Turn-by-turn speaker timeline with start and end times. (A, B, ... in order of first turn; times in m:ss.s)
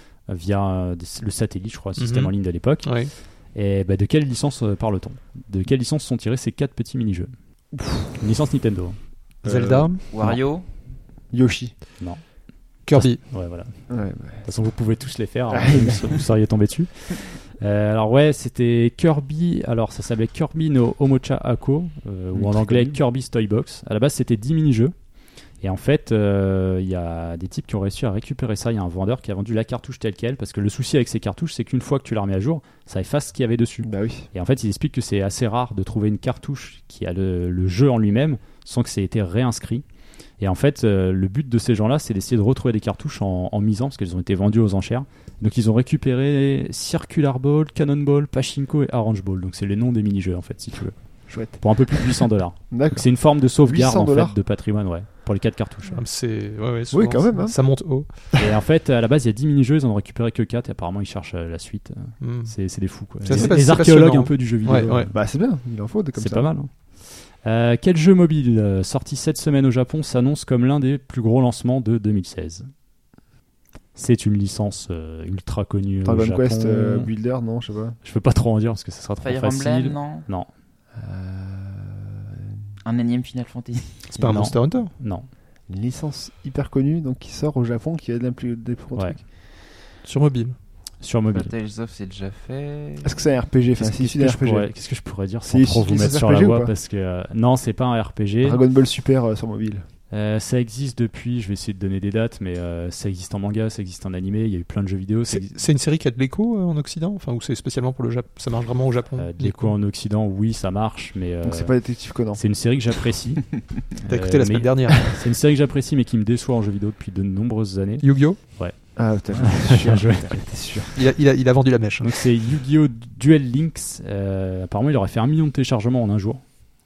0:00.2-0:07.3 A
0:02.0-0:03.1 B
0:07.7-0:08.2 C
0:08.1-0:09.0 A
0:09.4-0:09.9 C
0:09.4-0:10.0 B
0:10.1-0:10.6 D
0:11.3-0:11.7 C
0:12.0-0:12.3 A
0:12.8-0:13.2 B
0:12.9-0:24.9 A
0:13.9-0:14.5 C
0:15.5-0:16.2 C
0:22.3-0:23.0 C
0:25.6-0:39.8 A
0:33.8-0:34.3 C
0:40.4-0:56.0 A
0:51.3-0:54.4 C
0:55.9-0:58.1 B
0:56.9-0:57.6 C
0:58.4-1:05.2 A
1:02.2-1:02.5 B
1:03.2-1:05.1 B
1:03.2-1:03.6 C
1:05.1-1:06.5 C
1:06.1-1:12.7 A
1:13.9-1:17.1 A
1:16.0-1:18.0 C
1:18.0-1:20.5 A
1:19.2-1:20.3 D
1:20.9-1:22.6 C
1:22.8-1:24.4 D
1:24.1-1:24.9 B
1:24.2-1:25.3 A
1:25.7-1:29.2 C
1:30.0-1:30.6 B
1:31.0-1:31.5 A
1:31.3-1:33.3 D
1:33.0-1:34.8 C
1:33.8-1:38.6 A
1:35.4-1:36.7 C
1:38.4-1:39.8 C
1:40.1-1:45.5 A
1:45.3-1:49.7 B
1:49.2-2:00.9 A
1:51.4-1:52.4 C
1:54.0-1:55.2 B
1:58.0-1:58.4 B
1:59.0-2:00.9 C
2:01.0-2:02.2 B
2:02.0-2:06.4 A